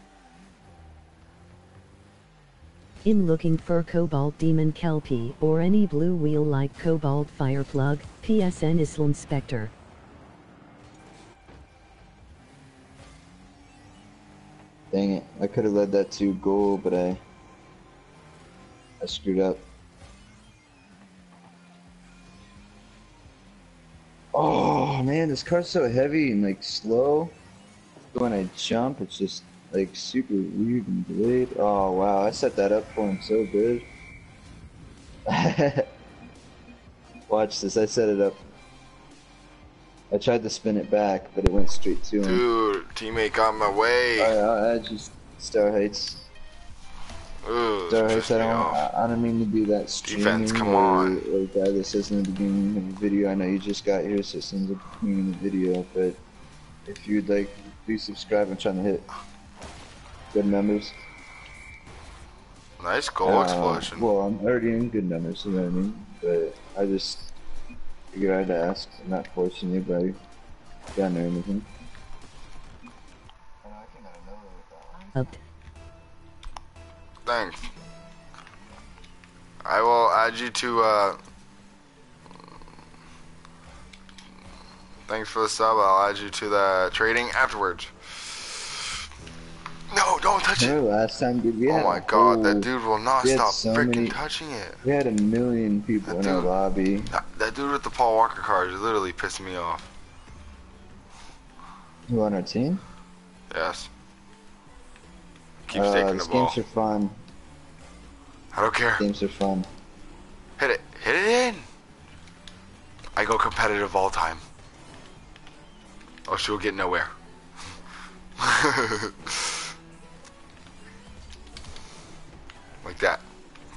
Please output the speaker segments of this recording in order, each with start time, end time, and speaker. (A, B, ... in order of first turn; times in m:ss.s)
0:03.0-0:09.7 A
0:14.9-0:17.2 B
0:19.0-0:19.6 B
0:24.3-0:27.4 B
0:28.1-0:33.9 B
0:35.2-0:35.9 B
0:37.3-0:38.4 B
0:40.1-0:42.4 B
0:42.2-0:44.3 C
0:44.2-0:46.2 B
0:47.4-0:48.8 C
0:47.9-0:56.2 B
0:50.0-0:51.2 C
0:56.8-0:59.0 B
1:00.3-1:01.0 B
1:02.8-1:04.1 C
1:03.2-1:07.3 B
1:08.1-1:10.2 B
1:10.9-1:11.7 B
1:13.6-1:15.2 B
1:15.1-1:15.4 A
1:17.2-1:17.7 C
1:19.6-1:21.2 C
1:25.1-1:28.8 C
1:29.9-1:30.8 C
1:30.6-1:32.7 B
1:31.7-1:34.8 C
1:33.2-1:34.2 B
1:34.8-1:37.1 B
1:36.0-1:36.5 C
1:37.1-1:39.9 C
1:42.1-1:42.8 B
1:43.5-1:43.9 C
1:45.7-1:46.6 C
1:45.7-1:47.2 B
1:48.5-1:49.0 C
1:49.0-1:49.7 B
1:50.6-1:51.6 C
1:53.2-1:54.4 C
1:56.3-1:57.1 C
1:58.4-1:59.6 C
2:02.8-2:03.2 C